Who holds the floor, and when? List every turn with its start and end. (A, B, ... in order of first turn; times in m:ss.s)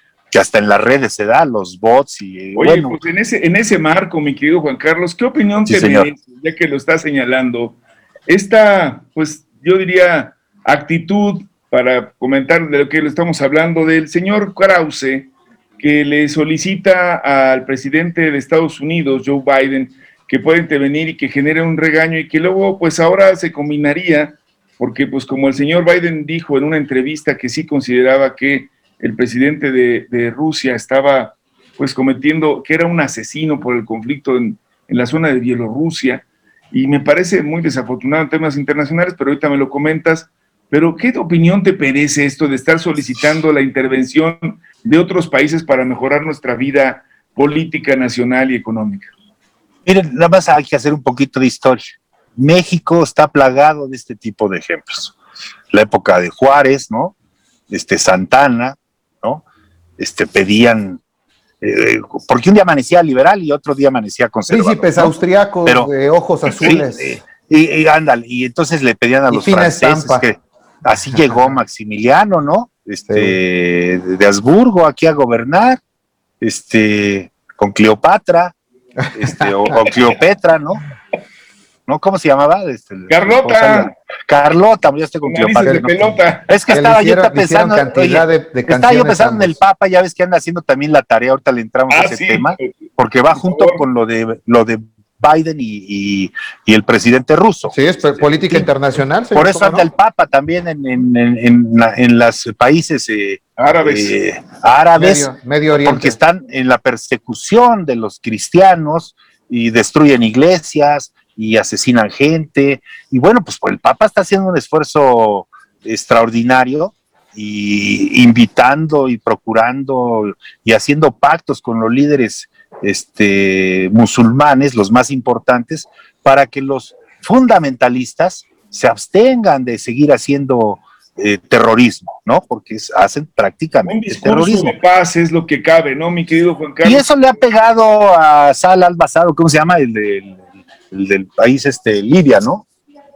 0:00.3-0:03.0 A
0:02.6-0:49.1 B
0:05.7-0:06.1 A
0:49.9-0:55.2 A
0:55.7-0:57.1 A
0:57.7-0:59.4 A
1:00.0-1:01.0 A
1:01.6-1:05.1 A
1:04.5-1:07.2 C
1:06.5-1:15.8 A
1:09.3-1:10.2 C
1:13.1-1:13.4 C
1:16.4-1:18.6 A
1:19.1-1:19.9 C
1:19.1-1:20.8 A
1:21.9-1:38.7 A
1:23.1-1:23.9 B
1:25.2-1:26.5 B
1:26.7-1:29.6 C
1:31.9-1:32.8 B
1:33.3-1:33.8 B
1:37.7-1:39.9 C
1:39.3-2:14.8 A
1:43.6-1:44.2 B
1:45.0-1:46.2 C
2:13.9-2:17.1 B
2:16.8-2:20.4 A
2:20.9-2:22.7 A